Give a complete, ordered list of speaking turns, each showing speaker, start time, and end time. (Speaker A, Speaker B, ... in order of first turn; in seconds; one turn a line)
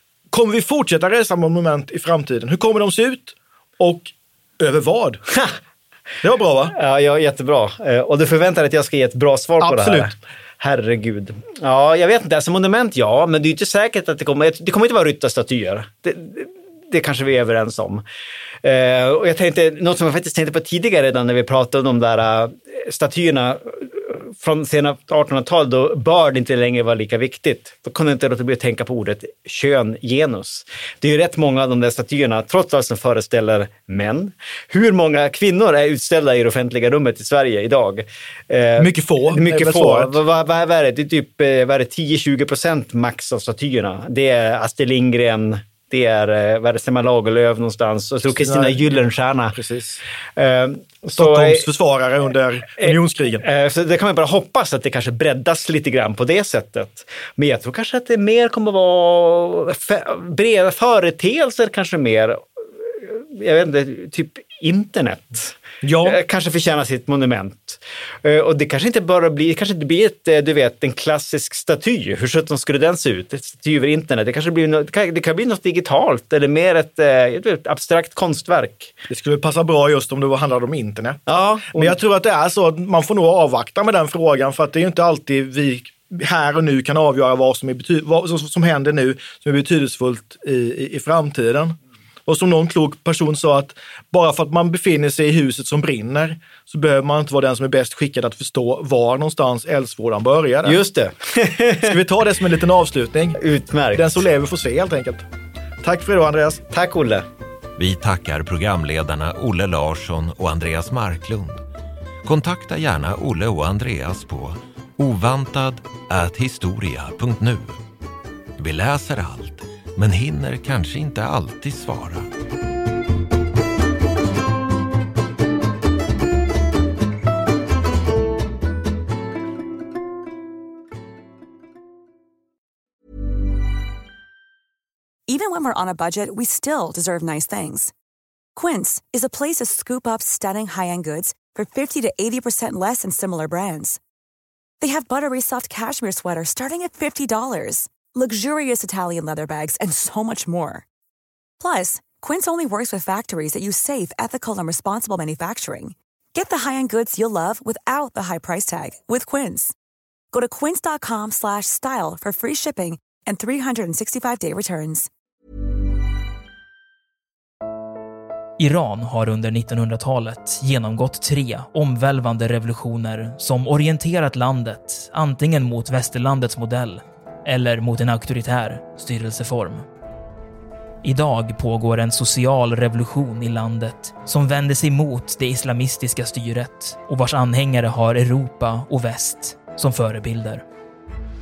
Speaker A: 0.3-5.2
Speaker B: 5.3-5.6
Speaker A: 6.2-6.7
Speaker B: 6.7-18.0
Speaker A: 9.6-10.1
Speaker B: 18.6-49.5
Speaker A: 38.8-40.2
Speaker A: 48.2-48.8
Speaker A: 49.5-50.0
Speaker B: 50.4-51.7
Speaker A: 51.2-53.4
Speaker B: 52.8-78.9
Speaker A: 65.8-66.2
Speaker A: 79.1-91.7
Speaker B: 81.3-82.0
Speaker A: 92.2-100.8
Speaker B: 100.6-101.9
Speaker A: 101.8-103.4
Speaker B: 103.4-104.2
Speaker A: 103.9-105.2
Speaker A: 105.8-106.7
Speaker B: 106.7-107.2
Speaker C: 107.8-111.6
Speaker C: 112.2-117.8
Speaker C: 118.6-122.3
Speaker D: 135.3-137.9
Speaker D: 138.5-144.0
Speaker D: 144.8-150.8
Speaker D: 151.6-159.7
Speaker D: 160.3-165.1
Speaker E: 168.6-179.8
Speaker E: 181.0-190.6